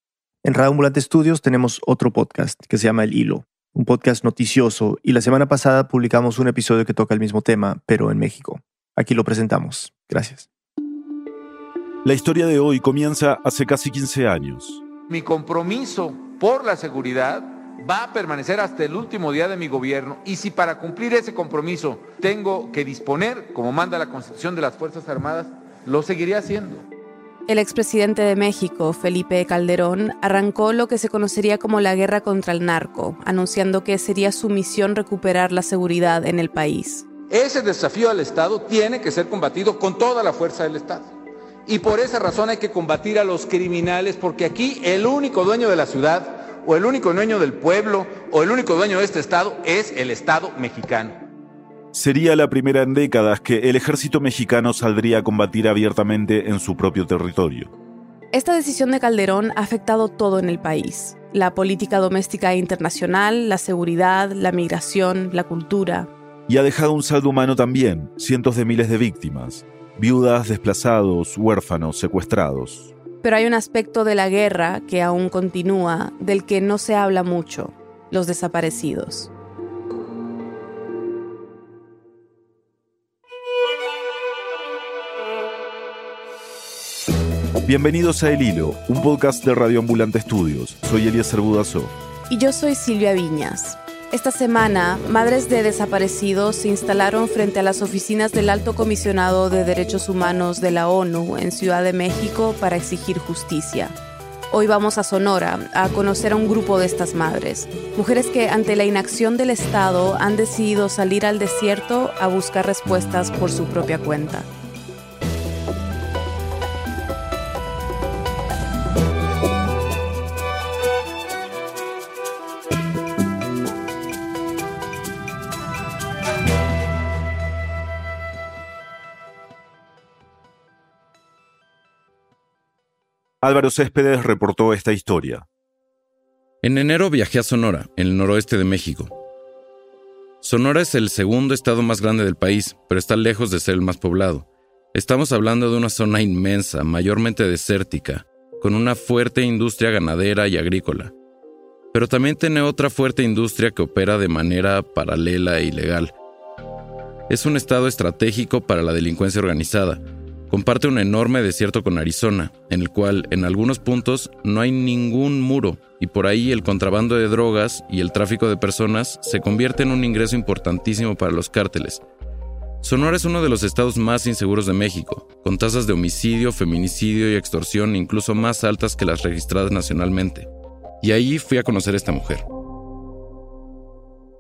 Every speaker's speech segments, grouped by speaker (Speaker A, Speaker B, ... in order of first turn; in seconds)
Speaker A: 0.4-10.5
Speaker B: 12.0-14.8, 51.9-57.7, 66.5-72.9, 87.7-91.9, 133.4-135.4
Speaker C: 15.1-26.8, 37.3-41.1, 41.7-51.3
Speaker D: 27.5-37.1, 58.3-66.1, 73.2-79.3, 92.3-103.9, 104.5-114.5
Speaker E: 136.6-139.1, 140.4-151.1, 151.9-156.1, 157.3-172.0, 172.8-180.5, 181.0-182.4